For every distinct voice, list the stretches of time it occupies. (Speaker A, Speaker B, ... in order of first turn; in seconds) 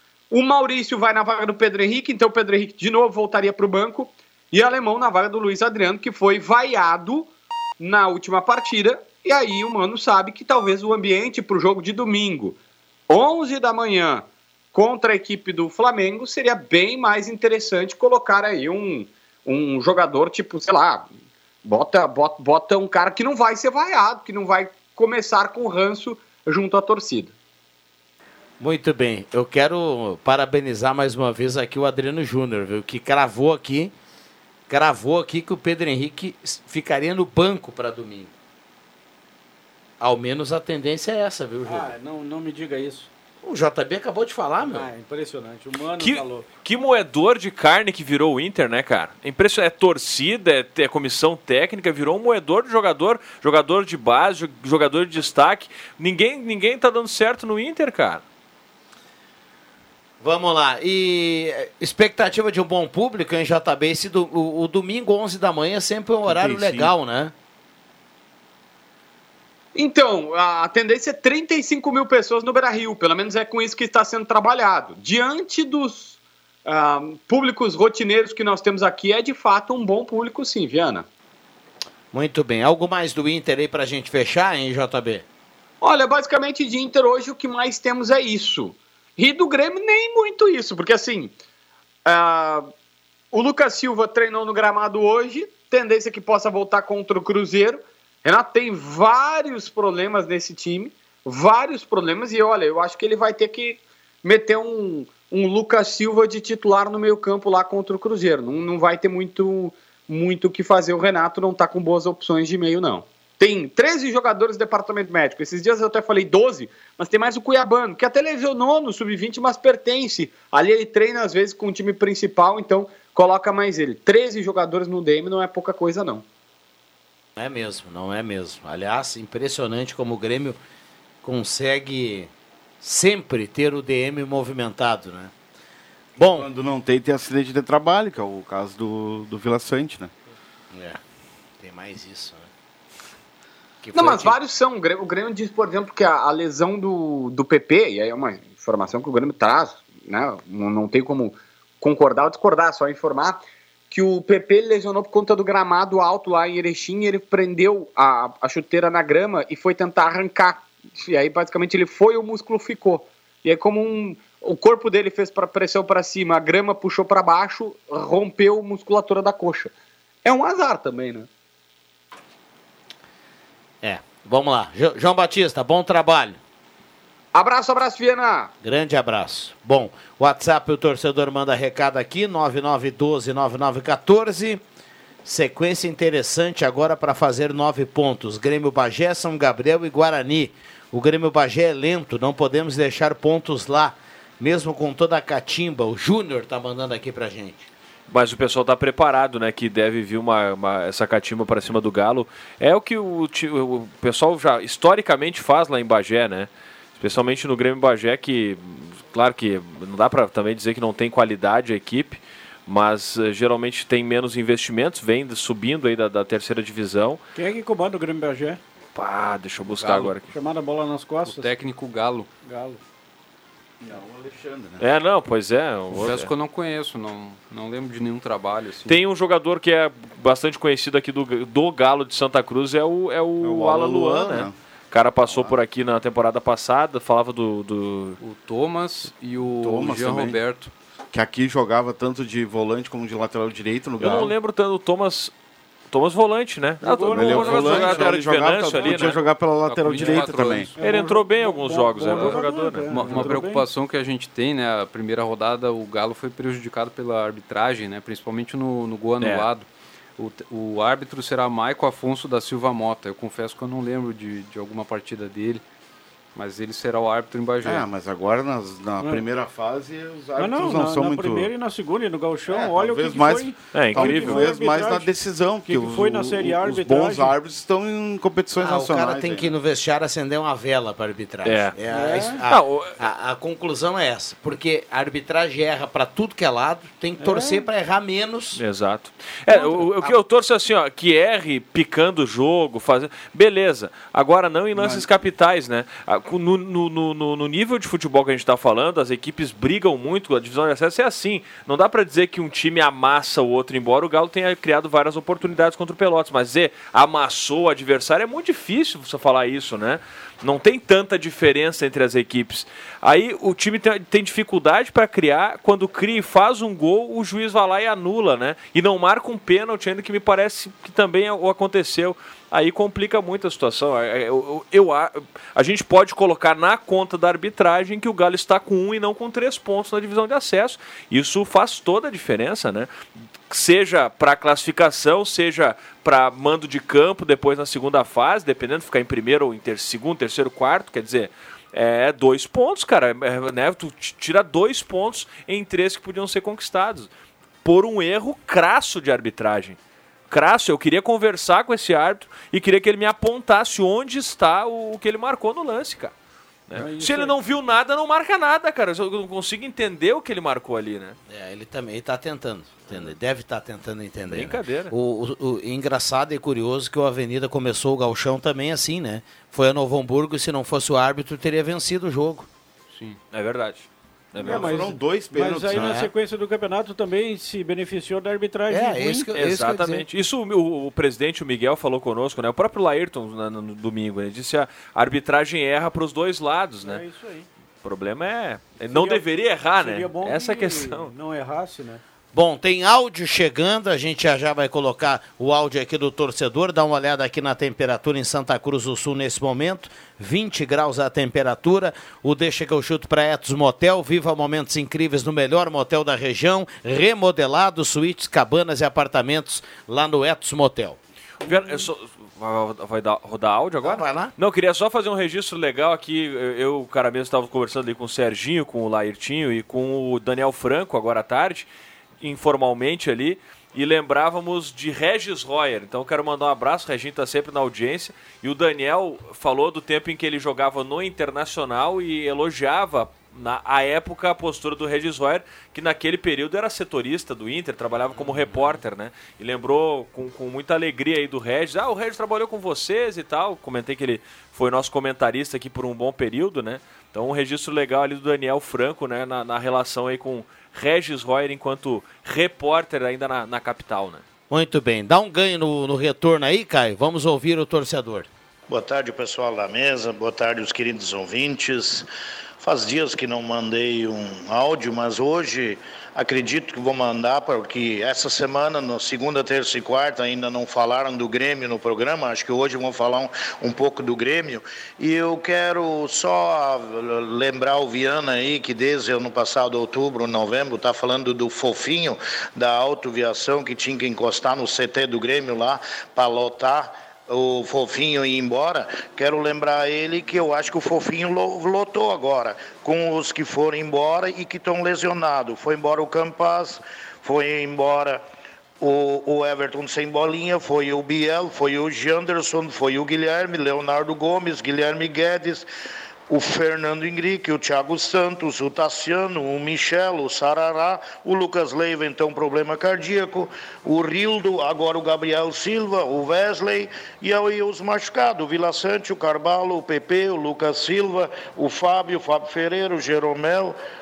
Speaker A: 0.3-12.6, 13.1-21.1, 21.6-27.3, 69.7-81.1, 85.8-91.3, 92.0-92.7, 93.3-126.2, 143.9-169.7, 170.2-171.3, 177.3-178.5
Speaker B: 28.6-33.9, 34.7-38.3, 40.0-41.9, 43.4-44.9, 60.2-67.3, 82.1-85.2, 127.3-130.6, 131.2-135.3, 136.2-136.5, 140.7-141.0, 141.6-142.5, 143.8-144.4, 173.8-176.4, 178.6-184.6, 185.2-197.7, 278.6-288.6, 289.6-290.1, 361.3-372.5, 375.8-376.1, 378.7-380.1, 392.3-411.0, 413.8-414.3, 454.5-458.3
Speaker C: 41.6-43.1, 44.6-46.5, 217.3-218.6, 220.3-221.6, 222.4-222.8, 246.8-249.2, 250.8-253.7, 270.4-277.4, 281.9-282.4, 287.2-287.7, 356.7-357.4, 374.4-379.3, 386.8-387.5, 388.8-392.0
Speaker D: 46.0-58.2, 198.1-217.2, 218.9-220.3, 224.8-226.3, 228.8-238.2, 244.0-245.3, 245.9-249.2, 250.8-253.4, 259.2-259.4, 273.7-274.5, 281.4-282.9, 288.6-332.9, 333.5-347.1, 347.6-349.8, 350.3-356.1, 356.7-361.2, 364.3-364.9, 373.3-374.9, 379.3-387.0, 387.8-391.1, 411.4-421.7, 422.2-454.2
Speaker E: 66.2-66.9, 136.3-140.1, 223.8-224.8, 233.4-234.5, 235.3-235.5, 239.6-240.4, 241.1-244.3, 247.1-250.7, 267.6-271.5, 272.5-279.5, 294.7-295.1, 374.4-376.0
Speaker F: 219.7-220.1, 221.2-222.3, 225.9-229.0, 238.2-240.7, 249.6-250.8, 252.0-259.7, 260.2-265.6, 266.3-267.9, 372.9-373.2
Speaker G: 458.7-462.1, 462.6-498.2, 498.8-505.7, 506.3-523.8